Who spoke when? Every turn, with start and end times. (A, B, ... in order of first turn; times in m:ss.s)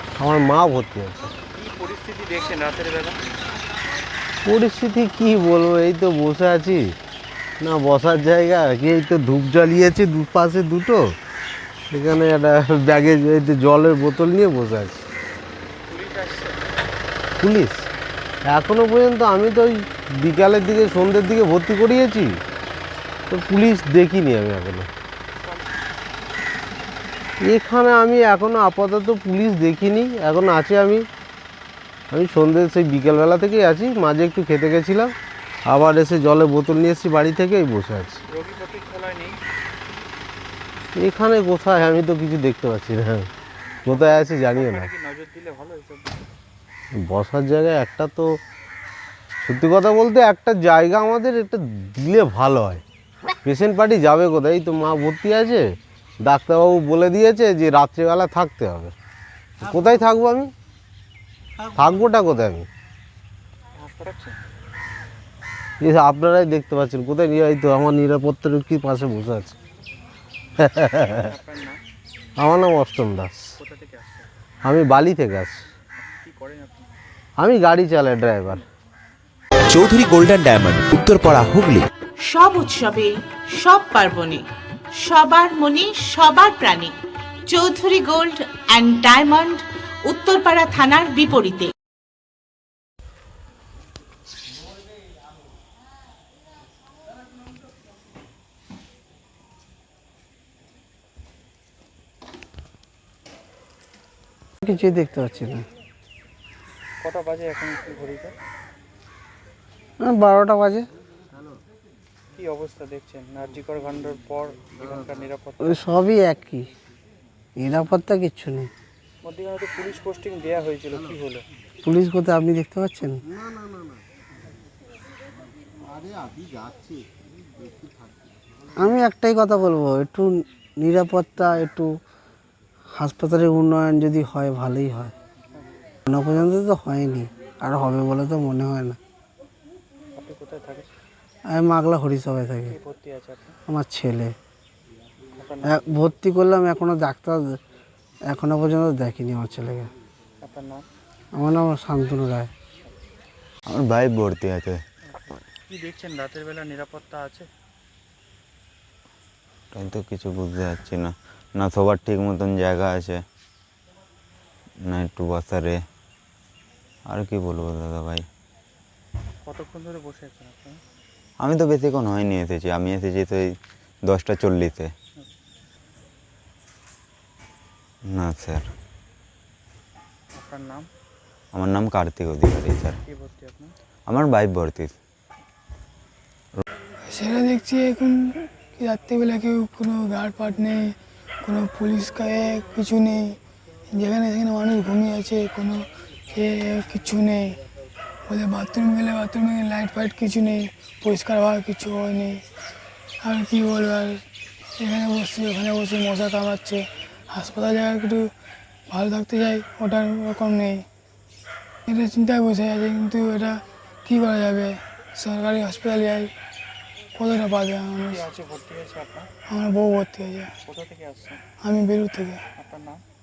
0:00.2-0:01.2 A
0:01.6-0:03.2 B
0:04.4-0:06.9 A
0:07.6-0:11.1 A
0:11.9-0:15.0 A
0:15.9-0:16.6 B
0:17.4-0:17.8 A
0:18.5-0:22.4 A
0:23.3-0:24.9 A
0:25.4-0:25.7 B
0:27.4-0:31.1 A
0:32.1-0:35.2 A
0:35.7-0:38.2 A
0:38.3-0:39.4 B
0:41.0-0:43.3 A
0:43.8-0:46.2 B
0:43.9-0:44.9 A
0:47.0-0:48.3 A
0:49.4-0:52.8 A
0:53.4-0:58.9 A
0:59.6-1:00.5 A
1:01.8-1:02.7 A
1:03.8-1:04.4 B
1:05.8-1:09.6 A
1:10.6-1:11.2 A
1:11.0-1:11.8 B
1:12.4-1:13.4 A
1:13.6-1:14.3 B
1:14.6-1:15.6 A
1:16.0-1:16.9 B
1:17.4-1:18.6 A
1:19.7-1:21.9 C
1:22.2-1:26.9 D
1:27.5-1:31.7 D
1:44.6-1:45.7 E
1:47.0-1:48.3 B
1:50.0-1:50.9 E
1:52.4-1:55.9 B
1:55.6-1:56.7 E
1:57.6-1:58.7 E
1:59.2-2:01.4 B
2:01.8-2:03.2 E
2:08.8-2:11.9 E
2:12.9-2:15.1 E
2:16.1-2:19.0 E
2:20.2-2:20.9 B
2:21.5-2:22.8 E
2:22.7-2:23.6 B
2:23.7-2:24.4 E
2:25.4-2:25.9 B
2:25.6-2:27.6 E
2:28.3-2:29.9 E
2:30.4-2:30.9 B
2:31.4-2:32.5 E
2:33.7-2:34.8 F
2:35.2-2:37.5 B
2:39.7-2:43.2 F
2:44.9-2:45.8 F
2:47.1-2:48.3 F
2:49.4-2:50.8 B
2:51.4-2:54.9 F
2:58.1-2:58.7 F
3:00.4-3:00.9 B
3:01.5-3:03.0 F
3:03.0-3:03.8 B
3:04.1-3:04.9 F
3:07.1-3:13.4 G
3:13.9-3:15.8 G
3:16.3-3:17.6 G
3:18.3-3:22.4 G
3:23.2-3:24.2 G
3:24.8-3:28.3 G
3:28.9-3:30.8 G
3:31.9-3:36.3 G
3:37.2-3:38.2 G
3:38.1-3:39.3 B
3:39.5-3:40.5 G
3:40.6-3:41.4 B
3:41.6-3:42.4 G
3:42.6-3:43.0 B